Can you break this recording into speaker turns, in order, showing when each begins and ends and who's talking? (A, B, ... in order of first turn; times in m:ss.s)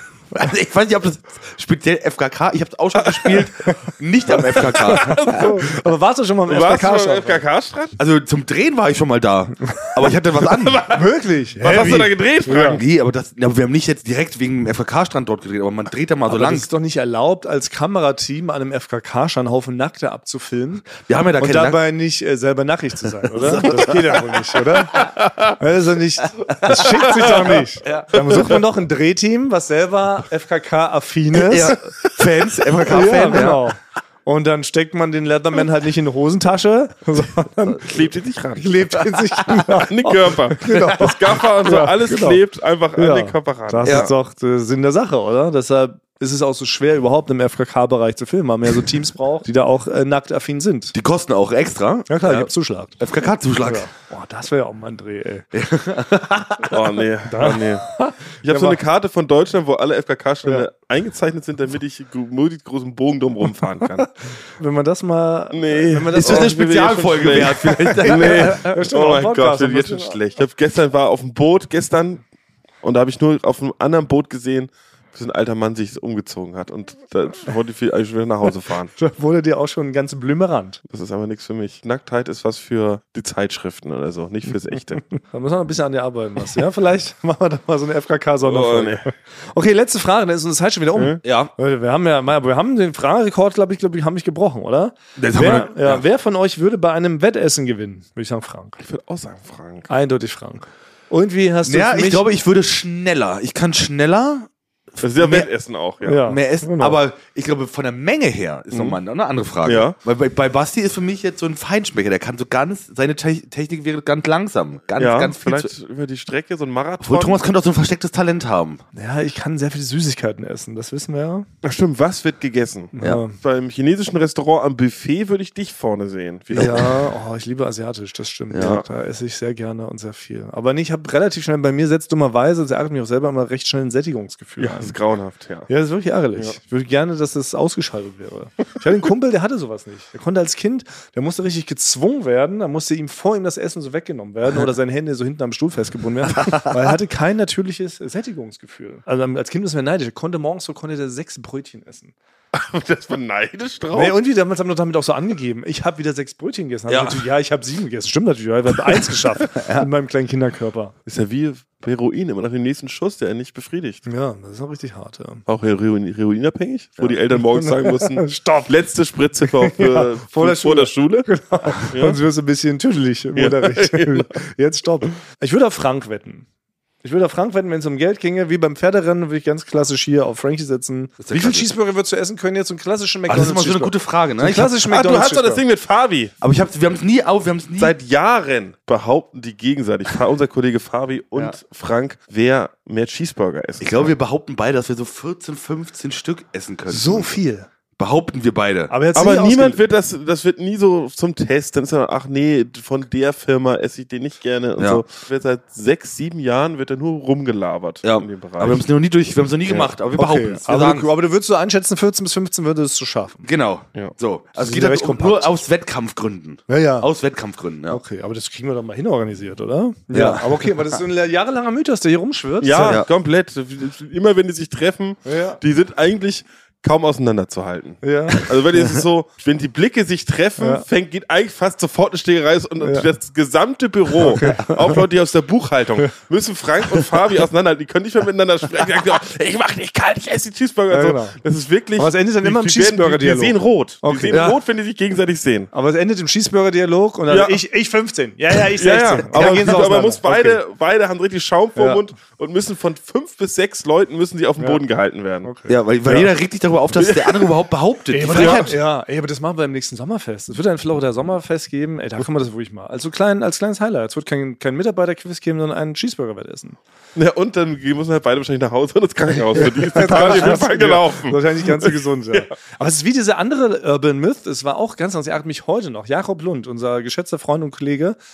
0:00.3-0:05.5 A
0:03.2-0:03.4 B
0:04.4-0:07.4 C
0:04.8-0:05.7 B
0:06.5-0:08.0 B
0:08.0-0:10.8 A
0:10.5-0:12.8 B
0:10.9-0:12.8 C
0:12.8-0:16.7 A
0:16.3-0:31.8 C
0:21.1-0:21.8 A
0:23.3-0:24.3 A
0:25.0-0:25.5 B
0:26.5-0:28.1 A
0:28.1-0:28.6 B
0:31.3-0:33.7 A
0:32.9-0:42.4 C
0:37.8-0:44.1 B
0:43.0-0:50.9 C
0:43.8-0:44.1 A
0:50.9-0:53.9 A
0:52.1-0:53.0 C
0:53.6-0:58.8 C
0:55.5-0:56.2 A
0:56.6-1:04.1 B
1:04.6-1:10.2 C
1:05.5-1:12.2 B
1:06.1-1:08.7 A
1:12.8-1:18.9 B
1:19.0-1:20.8 C
1:20.9-1:25.0 B
1:25.2-1:38.8 C
1:28.4-1:29.1 B
1:31.0-1:31.2 B
1:31.2-1:31.5 A
1:35.2-1:36.0 A
1:38.8-1:39.9 B
1:39.9-1:42.3 C
1:41.6-1:45.5 A
1:45.0-1:46.2 B
1:46.0-1:47.0 C
1:46.2-1:55.7 A
1:48.7-1:49.0 B
1:49.6-1:50.0 B
1:55.0-1:57.4 B
1:57.0-1:58.8 A
1:58.9-2:01.5 C
2:01.6-2:07.0 B
2:03.0-2:03.4 C
2:06.5-2:15.0 C
2:06.6-2:06.8 A
2:08.5-2:08.8 A
2:14.6-2:15.7 B
2:15.7-2:32.2 C
2:32.5-2:34.2 B
2:33.9-2:40.9 C
2:36.9-2:37.2 A
2:39.6-2:39.9 A
2:41.1-2:44.0 B
2:44.1-2:45.4 C
2:45.5-2:52.2 B
2:47.1-2:48.7 C
2:49.4-2:56.5 C
2:53.4-2:54.3 B
2:57.0-3:05.6 C
3:01.2-3:01.7 A
3:03.3-3:04.8 A
3:04.8-3:06.3 B
3:06.4-3:08.0 A
3:07.8-3:14.1 B
3:13.8-3:17.3 A
3:16.9-3:17.7 C
3:18.0-3:19.0 A
3:18.9-3:19.8 C
3:19.2-3:28.8 B
3:24.8-3:25.0 A
3:28.0-3:31.1 A
3:30.1-3:33.5 C
3:33.4-3:38.0 A
3:34.6-3:35.6 C
3:36.7-3:37.1 C
3:37.9-3:43.0 C
3:40.1-3:40.9 A
3:42.6-4:05.7 B
3:42.8-3:43.1 A
3:45.3-3:45.6 C
3:48.0-3:48.5 C
3:50.6-3:50.8 C
3:52.8-3:53.1 C
3:54.2-3:55.0 C
4:00.9-4:01.4 C
4:02.0-4:04.4 C
4:04.3-4:04.6 A
4:05.7-4:10.6 C
4:07.3-4:07.6 B
4:08.6-4:15.5 B
4:11.8-4:12.0 C
4:15.4-4:16.3 C
4:15.7-4:18.8 A
4:17.0-4:17.5 B
4:18.1-4:26.8 C
4:18.3-4:18.7 B
4:27.2-4:32.4 B
4:29.6-4:38.2 C